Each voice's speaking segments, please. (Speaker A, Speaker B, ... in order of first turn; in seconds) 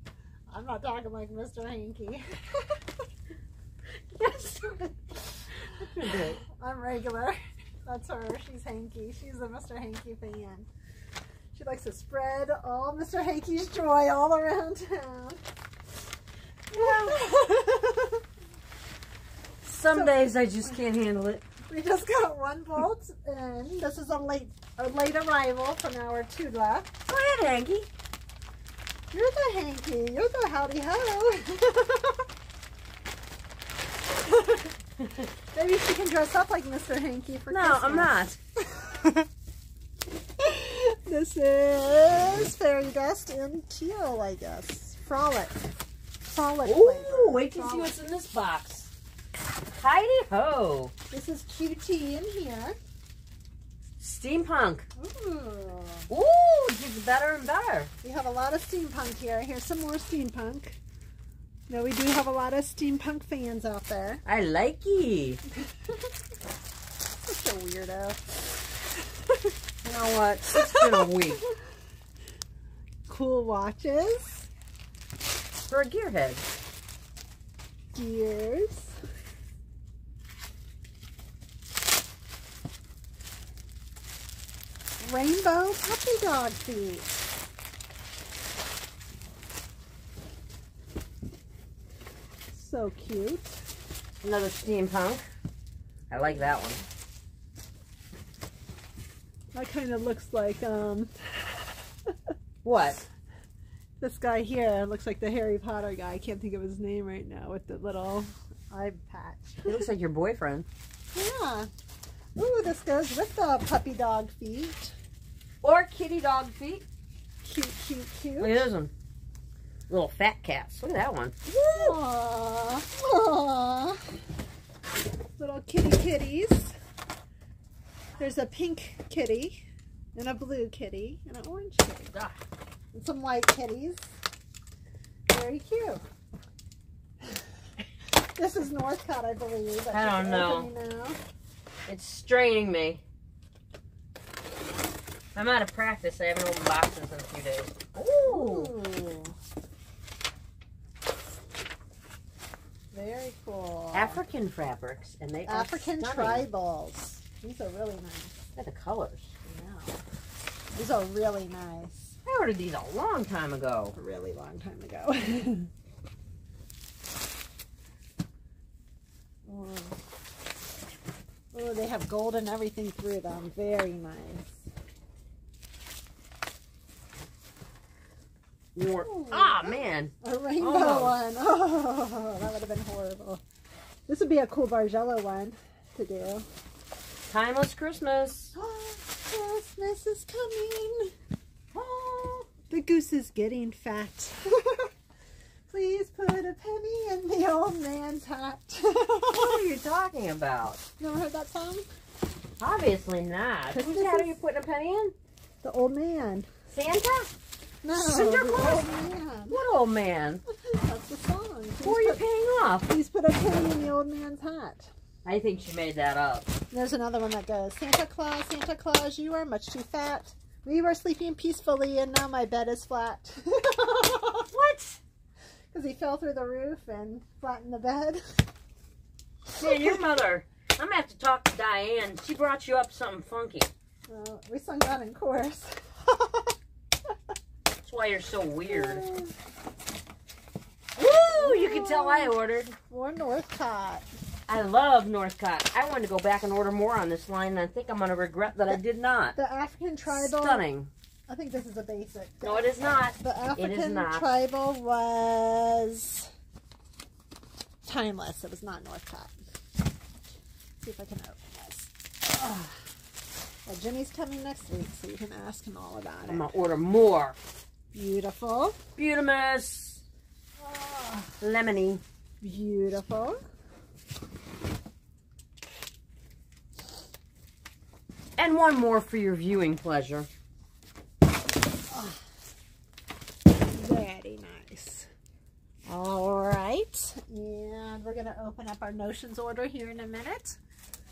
Speaker A: 0.5-2.8, 6.1-10.7, 11.5-15.4, 16.7-18.2, 19.9-20.3, 21.6-26.9, 29.1-32.3, 34.3-34.7, 35.5-39.3, 40.4-45.7, 46.3-48.0, 51.1-52.8, 55.0-56.1, 58.0-60.8, 61.7-64.2, 67.3-68.4, 73.1-74.5, 77.9-79.0, 85.0-87.2, 92.5-93.6, 99.5-102.1, 104.0-109.8, 111.1-111.7, 112.4-115.0, 117.4-118.7, 121.5-124.0, 125.4-126.8, 128.2-129.6, 130.2-132.1, 132.9-134.1, 135.3-136.0, 138.2-141.2, 148.2-149.4, 152.9-154.2, 155.5-158.4, 159.5-160.0, 160.7-162.2, 163.9-165.7, 169.5-170.0, 171.5-174.6, 179.0-183.4, 184.1-186.5, 188.6-191.1, 192.7-194.9, 195.7-199.6, 201.0-201.9, 203.7-204.4, 205.6-206.5, 207.8-209.6, 210.5-212.2, 212.8-214.9, 216.7-224.5, 225.7-228.4, 234.1-236.5, 238.7-239.3, 241.3-242.4, 242.9-244.1, 249.3-250.7, 251.3-256.3, 257.9-259.4, 260.8-262.8, 263.7-266.5, 267.9-268.8, 270.6-271.4, 272.4-273.4, 281.9-282.2, 283.7-285.1, 285.9-290.6
Speaker B: 4.1-4.8, 5.8-6.4, 16.7-17.3, 19.6-21.4, 27.1-27.9, 37.5-38.4, 46.6-48.9, 49.7-50.9, 54.0-54.9, 56.1-57.9, 64.2-65.4, 69.8-71.4, 75.7-76.5, 94.2-95.2, 96.1-96.8, 102.6-103.0, 109.7-110.7, 115.6-116.9, 118.4-118.9, 119.9-122.0, 132.1-132.4, 139.9-140.7, 141.9-143.0, 145.3-148.7, 153.9-156.5, 158.6-159.3, 162.2-163.9, 178.8-181.2, 187.3-188.5, 191.7-192.5, 199.3-200.8, 202.6-205.2, 206.7-207.3, 207.9-208.9, 209.5-210.4, 211.8-212.9, 215.2-216.5, 224.5-225.0, 229.6-233.7, 237.8-239.1, 241.0-242.8, 244.5-249.3, 250.1-250.9, 252.4-254.3, 266.2-267.4, 269.0-270.0, 271.4-272.0, 278.4-280.3